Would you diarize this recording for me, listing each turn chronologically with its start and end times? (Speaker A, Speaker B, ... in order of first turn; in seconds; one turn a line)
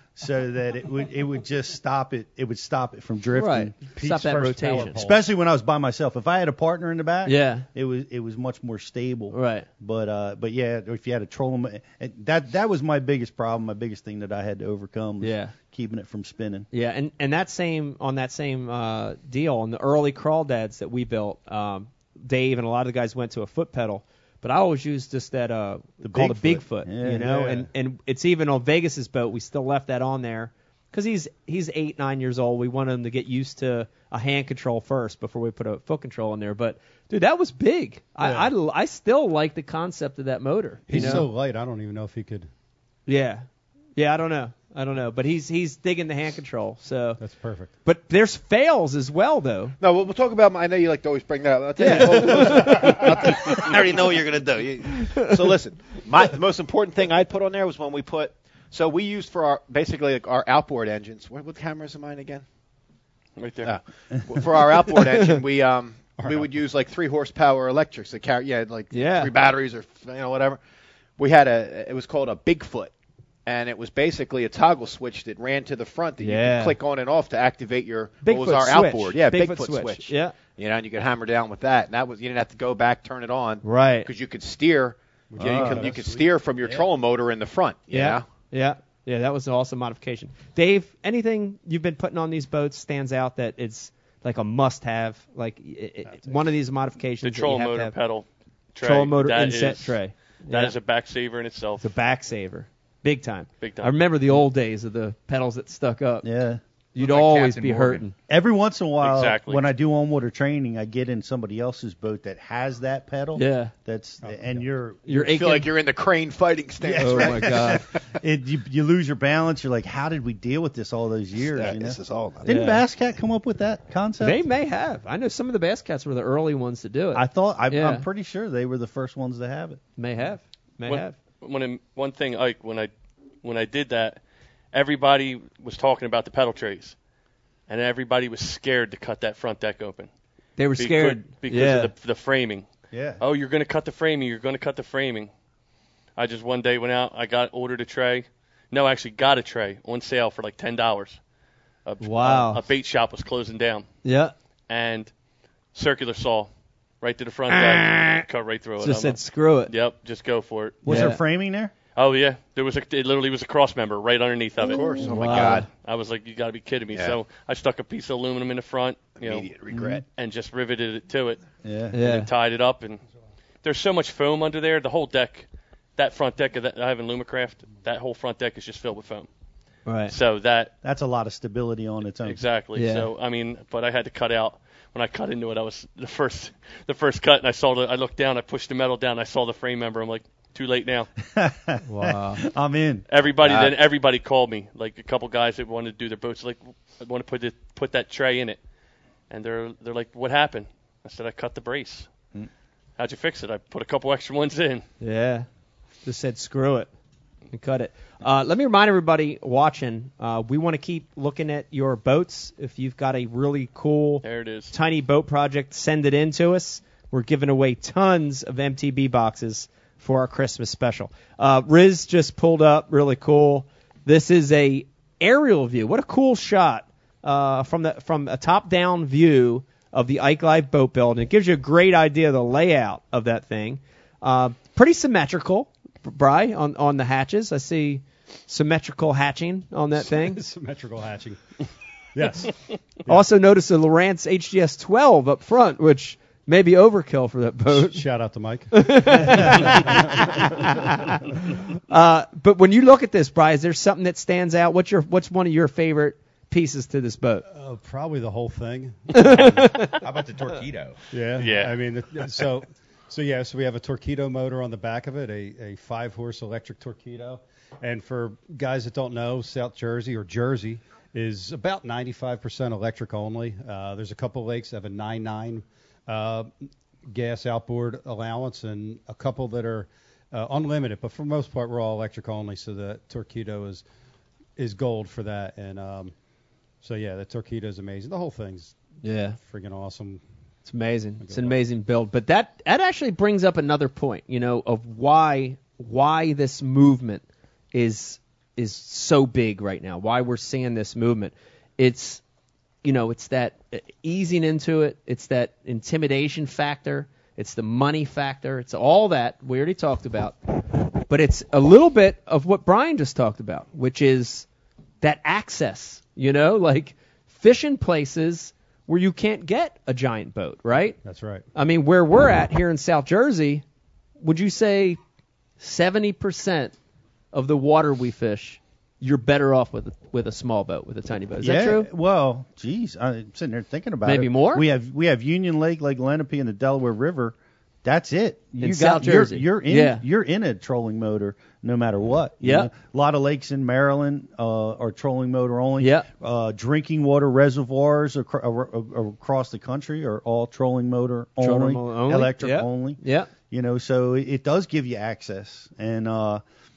Speaker A: 0.2-3.8
Speaker B: 3.3-5.0
Speaker C: 4.0-5.2
Speaker A: 4.9-16.7
Speaker B: 7.2-7.7
Speaker B: 9.3-9.7
Speaker B: 15.2-15.5
Speaker B: 16.7-41.2
Speaker A: 26.0-27.7
Speaker C: 38.2-38.5
Speaker C: 40.9-42.5
Speaker A: 40.9-41.2
Speaker B: 43.1-43.4
Speaker B: 44.0-47.2
Speaker C: 47.2-47.7
Speaker B: 47.8-49.8
Speaker D: 49.8-62.4
Speaker B: 51.8-53.2
Speaker E: 63.4-63.7
Speaker D: 63.6-70.6
Speaker C: 66.2-66.5
Speaker B: 68.9-69.3
Speaker D: 71.2-72.9
Speaker D: 73.5-88.2
Speaker B: 76.2-76.8
Speaker B: 78.2-80.3
Speaker B: 83.6-84.1
Speaker C: 85.3-86.3
Speaker A: 85.4-85.9
Speaker B: 87.9-97.9
Speaker C: 96.1-96.4
Speaker E: 97.2-101.8
Speaker B: 98.8-100.7
Speaker B: 101.8-106.3
Speaker E: 103.6-103.9
Speaker A: 106.2-106.6
Speaker B: 106.9-108.1
Speaker F: 107.0-108.1
Speaker A: 108.3-115.1
Speaker E: 109.0-109.7
Speaker B: 113.3-113.7
Speaker C: 114.2-114.6
Speaker B: 115.0-115.7
Speaker D: 115.1-118.0
Speaker A: 116.8-124.4
Speaker B: 117.0-117.8
Speaker D: 121.4-122.5
Speaker B: 122.5-122.8
Speaker B: 124.2-128.0
Speaker A: 127.1-129.8
Speaker B: 130.0-131.2
Speaker E: 130.8-132.9
Speaker E: 133.4-136.9
Speaker E: 137.7-140.1
Speaker B: 140.6-141.9
Speaker E: 140.8-142.7
Speaker A: 142.9-143.2
Speaker E: 143.2-145.3
Speaker E: 146.2-151.2
Speaker E: 151.8-153.9
Speaker B: 152.0-152.6
Speaker B: 154.0-154.3
Speaker E: 154.7-155.1
Speaker E: 155.7-161.0
Speaker B: 157.5-158.2
Speaker B: 158.8-159.7
Speaker A: 160.8-161.7
Speaker B: 160.9-161.2
Speaker E: 161.9-164.9
Speaker D: 164.6-165.7
Speaker B: 165.0-165.7
Speaker E: 165.7-169.5
Speaker D: 169.1-170.0
Speaker A: 169.7-170.0
Speaker E: 170.1-171.4
Speaker A: 171.6-171.9
Speaker B: 171.9-172.3
Speaker E: 172.0-173.0
Speaker E: 173.6-179.3
Speaker B: 179.8-180.1
Speaker E: 180.1-180.7
Speaker A: 180.8-182.4
Speaker E: 182.2-191.1
Speaker B: 182.7-183.1
Speaker A: 191.3-193.1
Speaker B: 191.9-192.4
Speaker E: 193.1-198.6
Speaker D: 193.4-193.7
Speaker E: 199.3-202.1
Speaker E: 203.0-204.8
Speaker B: 205.0-205.5
Speaker B: 206.0-206.9
Speaker B: 207.5-240.4
Speaker E: 214.2-214.7
Speaker C: 240.0-241.5
Speaker C: 242.1-243.2
Speaker B: 243.1-248.0
Speaker C: 247.7-250.8
Speaker B: 248.7-251.2
Speaker B: 251.9-257.4
Speaker C: 257.5-259.8
Speaker B: 259.1-260.0
Speaker F: 259.7-261.0
Speaker C: 261.1-276.5
Speaker E: 261.4-261.8
Speaker C: 277.1-283.8
Speaker C: 284.6-286.1
Speaker C: 286.8-288.8
Speaker B: 289.0-289.4
Speaker C: 289.4-290.2
Speaker B: 290.6-302.2
Speaker C: 291.2-291.6
Speaker B: 302.8-310.4
Speaker B: 311.0-314.4
Speaker B: 315.0-321.0
Speaker C: 321.0-321.4
Speaker B: 321.5-323.6
Speaker B: 324.2-325.0
Speaker B: 325.6-326.7
Speaker B: 327.3-331.9
Speaker A: 331.4-356.4
Speaker B: 334.0-334.6
Speaker B: 338.6-340.0
Speaker B: 342.4-342.7
Speaker B: 345.8-346.1
Speaker B: 351.4-353.3